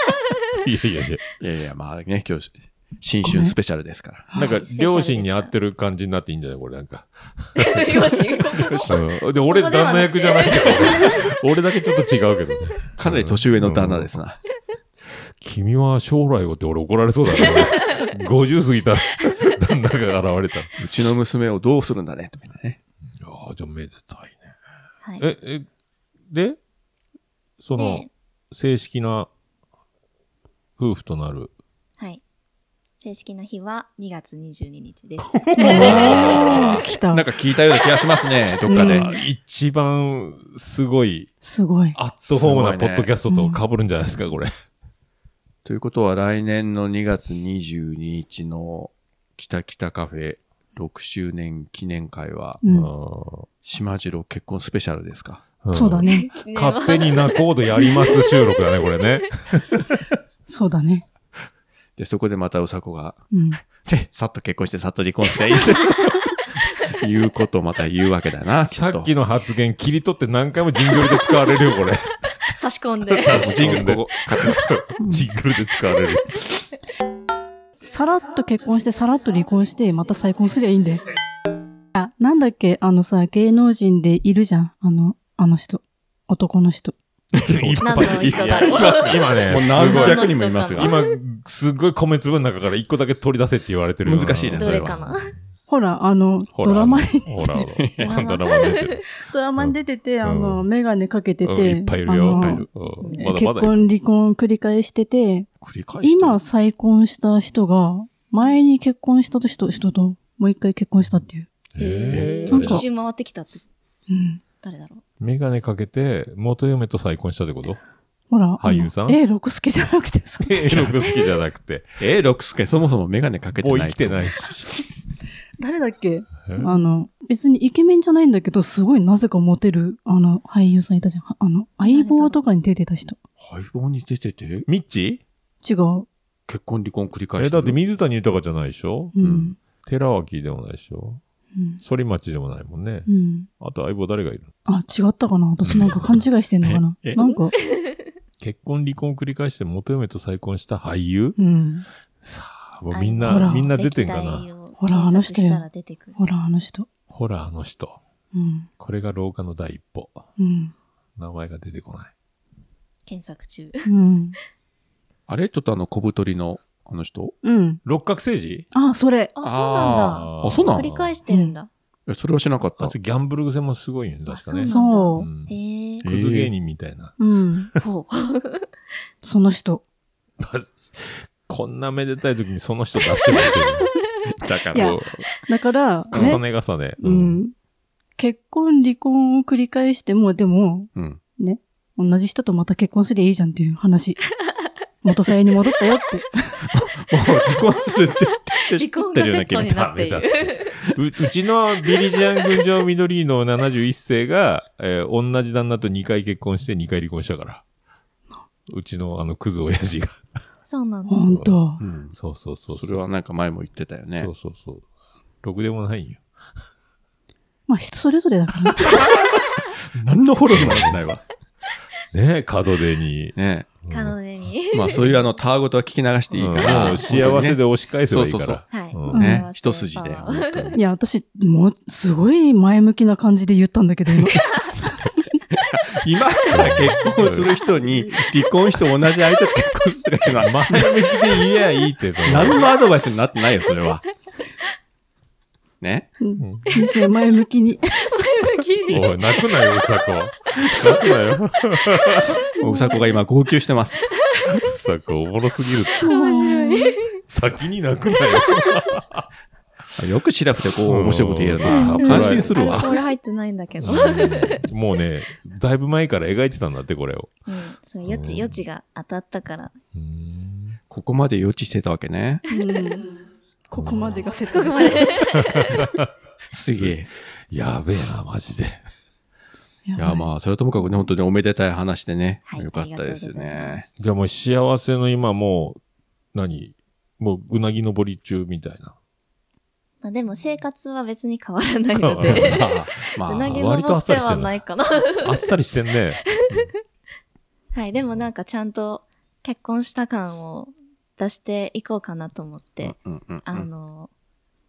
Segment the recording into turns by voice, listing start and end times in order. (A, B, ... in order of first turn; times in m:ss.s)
0:00.6-0:01.2 A
0:01.4-0:04.3 B
0:03.2-0:03.5 C
0:04.3-0:05.5 D
0:04.3-0:08.0 A
0:07.6-0:11.3 D
0:08.6-0:09.0 B
0:08.9-0:14.1 A
0:13.0-0:14.4 B
0:15.1-0:20.7 A
0:17.4-0:18.1 D
0:20.8-0:22.8 B
0:23.2-0:24.6 A
0:25.2-0:25.7 A
0:26.3-0:26.6 A
0:27.6-0:29.3 A
0:27.8-0:28.1 D
0:30.8-0:31.5 A
0:33.0-0:36.5 D
0:35.2-0:36.8 A
0:35.6-0:37.3 C
0:35.7-0:39.1 B
0:38.6-0:39.2 C
0:38.7-0:41.3 A
0:41.4-0:42.0 C
0:41.9-0:44.5 A
0:42.2-0:43.1 B
0:43.3-0:43.6 C
0:45.6-0:52.6 B
0:52.6-0:52.9 C
0:52.7-0:53.5 A
0:53.6-0:55.5 B
0:55.6-1:00.0 A
0:55.7-0:56.3 C
0:56.0-0:59.1 D
1:00.5-1:01.0 C
1:02.0-1:09.1 B
1:03.3-1:03.6 C
1:08.6-1:12.1 A
1:12.5-1:13.6 D
1:13.1-1:16.6 A
1:13.3-1:14.6 B
1:15.0-1:15.3 C
1:17.8-1:21.0 C
1:21.9-1:27.0 C
1:27.3-1:30.9 B
1:27.3-1:35.3 A
1:27.8-1:31.1 D
1:34.0-1:35.0 B
1:34.6-1:35.3 D
1:35.7-1:37.6 C
1:36.5-1:39.0 A
1:37.5-1:38.2 B
1:38.0-1:39.0 D
1:39.3-1:45.5 C
1:39.6-1:40.6 A
1:41.4-1:43.8 A
1:42.3-1:42.6 B
1:43.0-1:43.3 D
1:45.6-1:46.5 B
1:46.0-1:51.5 C
1:51.7-1:52.8 A
1:51.8-1:53.6 D
1:52.5-1:52.8 C
1:54.1-1:54.4 C
1:54.6-1:55.0 D
1:55.2-1:57.8 A
1:58.3-2:00.9 C
1:58.6-1:59.2 A
2:00.4-2:02.0 A
2:02.0-2:04.7 B
2:03.6-2:04.6 A
2:05.6-2:13.2 C
2:11.8-2:12.4 D
2:13.4-2:14.7 B
2:14.7-2:15.2 A
2:15.6-2:16.1 C
2:16.5-2:17.8 B
2:17.4-2:19.1 A
2:19.2-2:19.6 C
2:19.2-2:19.5 B
2:19.8-2:21.2 A
2:21.6-2:21.8 C
2:21.8-2:24.5 A
2:23.1-2:23.5 C
2:24.6-2:27.5 C
2:25.6-2:26.2 A
2:25.7-2:26.0 B
2:26.6-2:27.2 B
2:27.2-2:28.1 D
2:28.4-2:31.4 A
2:31.4-2:31.8 C
2:32.2-2:34.5 A
2:32.9-2:36.2 D
2:33.2-2:33.7 C
2:34.8-2:35.6 C
2:36.2-2:36.9 C
2:37.1-2:38.0 A
2:38.3-2:38.7 C
2:38.8-2:40.2 A
2:40.4-2:40.7 C
2:41.2-2:42.1 A
2:43.0-2:43.9 D
2:43.8-2:44.4 C
2:45.3-2:47.3 B
2:47.4-2:47.8 C
2:47.8-2:48.6 A
2:48.7-2:49.3 C
2:49.4-2:51.7 D
2:49.4-2:50.9 B
2:50.0-2:51.1 A
2:51.3-2:51.5 C
2:52.1-2:52.9 B
2:52.8-2:55.5 A
2:54.3-2:56.0 D
2:54.7-2:55.3 C
2:56.0-2:57.8 A
2:56.0-2:56.5 B
2:57.2-2:57.7 C
2:57.8-2:58.7 D
2:59.2-2:59.8 C
3:00.4-3:03.9 A
3:03.2-3:03.6 D
3:04.3-3:05.2 B
3:04.7-3:06.4 C
3:06.1-3:07.4 A
3:06.1-3:06.4 B
3:07.0-3:07.5 C
3:08.2-3:14.2 C
3:10.9-3:11.2 B
3:15.0-3:16.6 C
3:16.7-3:19.7 B
3:18.1-3:20.8 D
3:19.5-3:27.6 A
3:22.1-3:22.6 D
3:28.7-3:30.2 A
3:30.7-3:31.4 D
3:31.1-3:31.8 C
3:31.3-3:31.6 A
3:31.8-3:32.2 B
3:32.1-3:33.0 A
3:32.7-3:34.3 B
3:34.2-3:34.8 A
3:35.4-3:36.2 A
3:37.7-3:39.0 C
3:38.9-3:39.2 B
3:39.9-3:41.2 B
3:40.5-3:41.0 A
3:42.1-3:44.2 A
3:43.4-3:43.7 B
3:43.9-3:45.1 D
3:44.7-3:50.8 B
3:46.3-3:49.3 A
3:46.6-3:47.0 D
3:48.7-3:50.8 D
3:49.1-3:49.4 C
3:50.7-3:54.4 C
3:55.5-4:01.4 B
3:56.5-3:57.5 A
4:00.3-4:02.6 A
4:02.2-4:04.0 B
4:05.8-4:06.1 B
4:06.2-4:08.0 C
4:06.4-4:06.7 A
4:08.0-4:10.0 D
4:08.9-4:12.4 A
4:10.6-4:11.0 B
4:12.1-4:13.2 D
4:12.6-4:14.1 B
4:14.1-4:14.6 D
4:14.4-4:16.0 A
4:15.9-4:17.2 D
4:16.0-4:17.0 C
4:17.3-4:19.3 A
4:18.3-4:18.6 D
4:20.0-4:23.0 B
4:20.6-4:23.0 A
4:21.6-4:24.6 D
4:23.8-4:27.3 A
4:27.5-4:29.7 D
4:28.0-4:28.6 A
4:29.9-4:30.8 A
4:30.9-4:32.4 B
4:32.5-4:33.2 C
4:32.5-4:33.0 D
4:33.7-4:35.2 C
4:33.8-4:34.2 A
4:34.5-4:35.8 D
4:35.3-4:36.1 A
4:36.5-4:37.1 B
4:36.6-4:38.8 A
4:39.8-4:40.2 C
4:40.0-4:43.8 B
4:42.5-4:43.8 D
4:44.0-4:45.8 A
4:46.3-4:49.0 A
4:50.0-4:55.4 D
4:51.9-4:54.6 A
4:52.2-4:53.7 B
4:55.1-4:56.3 A
4:56.4-4:56.7 D
4:57.7-5:04.1 D
5:02.8-5:03.7 B